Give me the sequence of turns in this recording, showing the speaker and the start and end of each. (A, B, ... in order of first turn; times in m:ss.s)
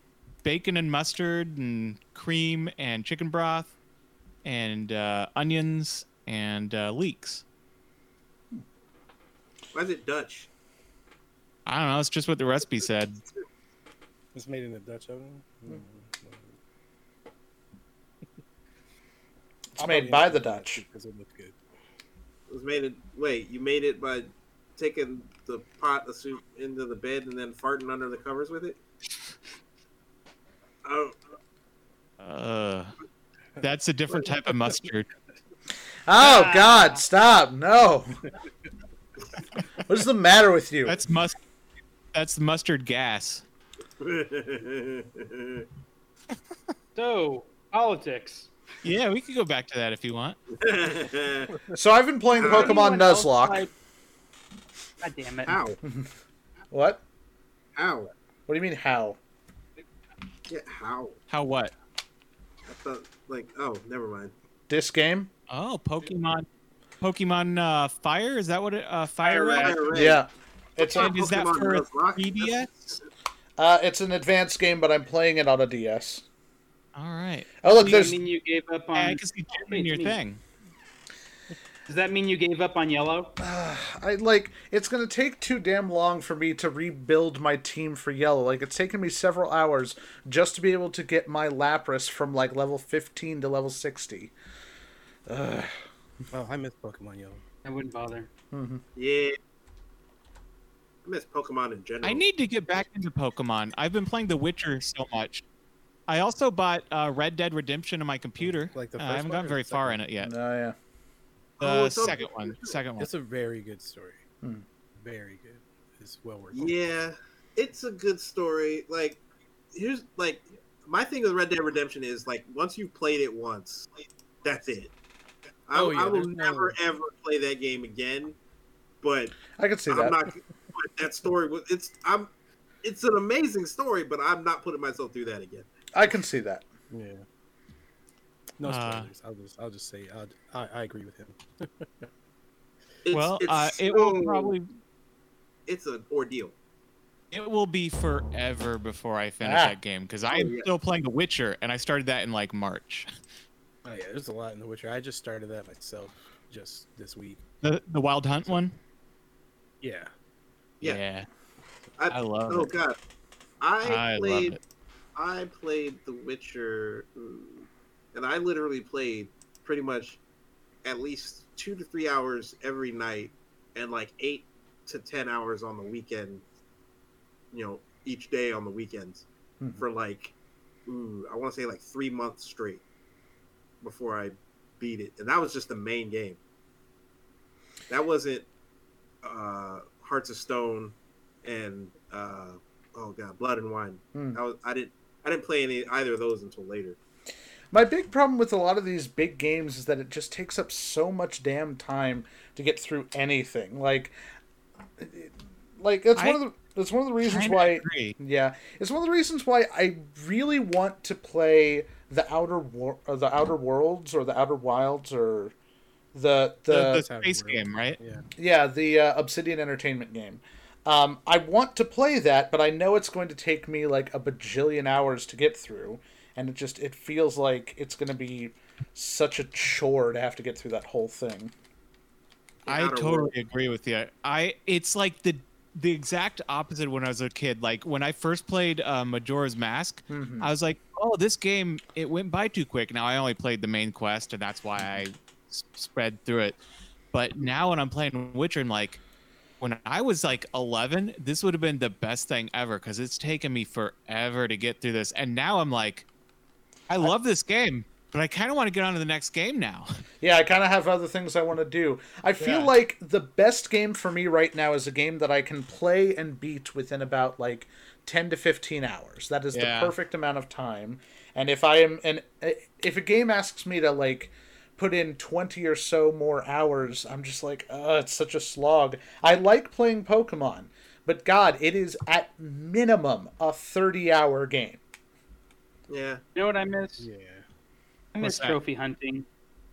0:00.4-0:03.7 A
0:04.4-0:07.4 A
0:09.7-0:10.5 B
0:11.6-0:13.2 A
0:14.3-0:16.5 C
0:19.8-0:20.8 D
0:19.8-0:21.6 C
0:22.5-0:28.8 B
0:30.8-0:31.2 B
0:32.2-0:32.9 A
0:33.6-0:35.1 A
0:36.1-0:38.1 D
0:36.2-0:37.0 E
0:39.8-0:41.0 D
0:40.8-0:41.4 A
0:42.1-0:43.4 A
0:44.0-0:45.6 B
0:47.0-0:48.5 E
0:48.8-0:50.4 A
0:50.6-0:51.5 B
0:51.7-0:53.6 D
0:52.4-0:52.8 B
0:52.4-0:53.7 E
0:55.0-0:55.5 E
0:55.4-0:55.8 B
0:55.8-0:56.1 D
0:56.7-0:57.0 D
0:57.7-0:58.1 B
0:58.5-0:59.2 D
1:00.5-1:01.2 B
1:01.3-1:01.7 A
1:02.6-1:04.3 B
1:04.7-1:05.3 D
1:05.5-1:06.4 A
1:07.0-1:10.0 A
1:09.2-1:10.2 B
1:09.5-1:09.8 E
1:09.9-1:11.1 D
1:10.8-1:12.7 B
1:10.8-1:13.0 A
1:13.6-1:16.2 D
1:16.9-1:17.5 A
1:17.6-1:18.2 D
1:17.7-1:20.2 E
1:18.9-1:20.4 A
1:21.9-1:23.3 E
1:23.4-1:34.3 D
1:35.3-1:35.7 D
1:36.3-1:37.4 C
1:37.6-1:38.3 E
1:38.5-1:38.8 D
1:39.0-1:39.4 B
1:41.0-1:42.2 B
1:42.0-1:45.4 A
1:46.1-1:50.3 A
1:48.4-1:50.0 C
1:50.2-1:50.8 D
1:51.6-1:52.8 B
1:51.6-1:53.1 A
1:53.0-1:54.2 C
1:55.0-1:56.8 C
1:56.5-1:59.2 B
1:59.7-2:03.9 B
2:04.4-2:04.9 B
2:05.7-2:08.4 B
2:05.7-2:06.8 C
2:09.0-2:12.3 B
2:09.5-2:10.2 D
2:12.8-2:15.7 B
2:15.9-2:16.6 D
2:16.9-2:17.2 C
2:18.6-2:22.1 C
2:18.6-2:19.1 A
2:23.0-2:24.5 B
2:23.1-2:24.7 A
2:25.7-2:26.5 B
2:27.3-2:33.1 A
2:29.4-2:29.8 D
2:30.3-2:30.7 B
2:33.8-2:37.4 C
2:37.6-2:38.8 A
2:39.8-2:40.1 C
2:40.8-2:41.3 A
2:42.0-2:43.0 B
2:42.1-2:42.7 A
2:43.6-2:44.6 B
2:43.8-2:44.6 A
2:45.1-2:50.2 B
2:50.8-2:56.4 B
2:57.5-2:59.2 B
2:59.8-3:00.3 B
3:00.8-3:02.8 B
3:03.8-3:06.4 B
3:07.9-3:08.4 B
3:09.2-3:17.0 B
3:14.1-3:14.4 D
3:17.7-3:24.1 D
3:25.0-3:35.5 D
3:27.2-3:28.2 A
3:36.1-3:37.0 D
3:36.7-3:38.0 A
3:36.9-3:38.2 C
3:38.4-3:51.5 D
3:52.6-3:53.3 B
3:52.7-4:06.6 A
4:00.1-4:00.5 D
4:07.1-4:09.0 A
4:09.6-4:16.0 A
4:16.9-4:19.9 A
4:20.2-4:44.8 D
4:22.4-4:22.7 A
4:29.5-4:29.9 A
4:45.9-4:46.2 B
4:46.3-4:47.1 E
4:47.0-4:47.4 C
4:48.1-4:49.2 E
4:48.2-4:48.6 A